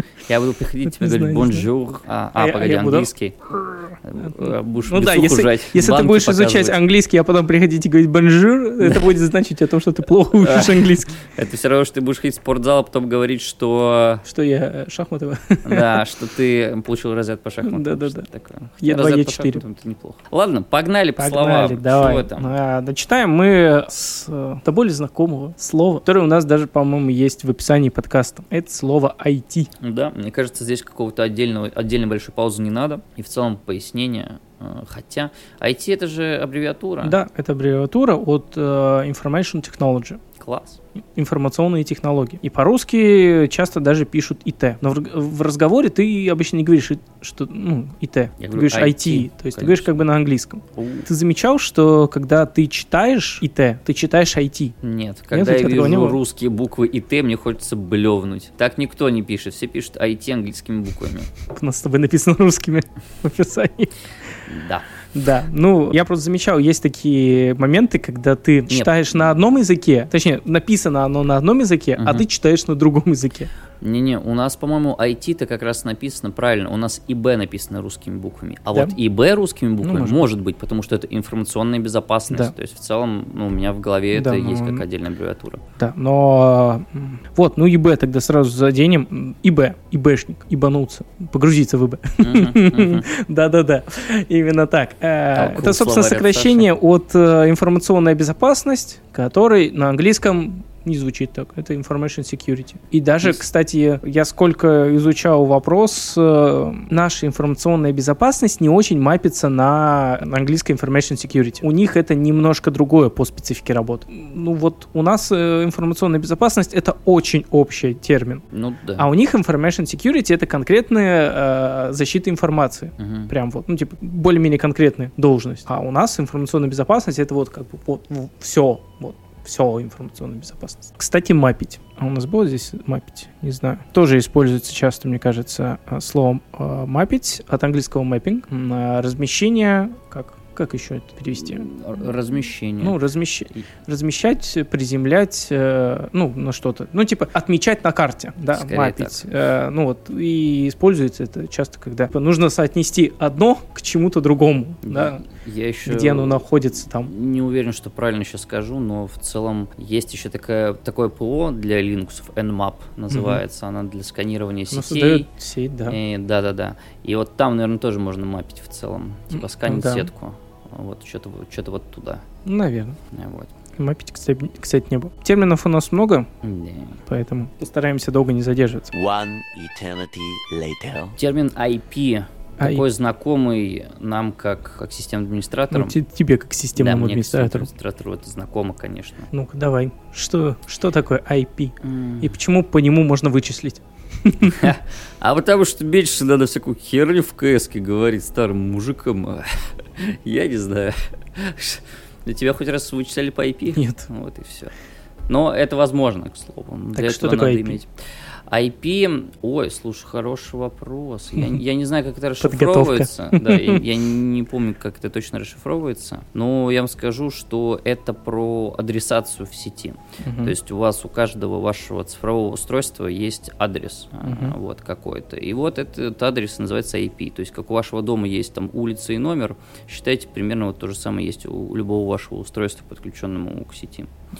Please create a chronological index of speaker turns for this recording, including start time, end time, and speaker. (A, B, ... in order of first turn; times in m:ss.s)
0:00.3-0:03.4 A
0:00.9-0:01.7 B
0:02.4-0:03.1 B
0:03.6-0:11.2 B
0:04.0-0:06.8 A
0:10.3-0:14.2 A
0:14.2-0:16.0 B
0:15.6-0:22.6 A
0:17.6-0:18.3 B
0:18.8-0:19.6 B
0:21.2-0:29.7 B
0:29.8-0:37.2 A
0:37.0-0:40.2 B
0:40.4-0:40.8 A
0:41.2-0:54.8 B
0:48.4-0:50.0 A
0:50.8-0:51.1 A
0:54.8-1:01.3 A
0:55.3-0:56.2 B
1:01.5-1:03.9 B
1:04.5-1:04.9 A
1:05.2-1:13.5 B
1:08.7-1:09.4 A
1:12.0-1:12.3 A
1:13.8-1:25.6 A
1:19.8-1:20.2 B
1:24.1-1:24.8 B
1:25.8-1:58.4 B
1:32.2-1:33.1 A
1:35.3-1:36.7 A
1:58.5-1:59.1 A
1:59.0-2:21.7 B
2:03.0-2:03.3 A
2:21.4-2:23.0 A
2:22.8-2:35.2 B
2:28.5-2:29.2 A
2:34.8-2:45.3 A
2:35.8-2:37.1 B
2:43.1-2:43.4 B
2:44.7-2:46.0 B
2:45.9-2:52.2 A
2:49.6-2:50.1 B
2:52.4-2:53.0 B
2:53.1-2:53.5 A
2:53.8-2:56.3 B
2:56.4-2:57.0 A
2:57.1-2:58.9 B
2:58.9-3:01.2 C
3:01.2-3:06.0 A
3:05.7-3:07.7 B
3:06.8-3:09.3 A
3:09.3-3:14.6 B
3:11.8-3:12.3 A
3:14.4-3:24.7 A
3:23.7-3:24.1 B
3:25.3-3:27.9 A
3:27.0-3:27.8 B
3:28.5-3:54.1 A
3:32.4-3:33.8 B
3:40.2-3:40.5 B
3:44.2-3:44.6 B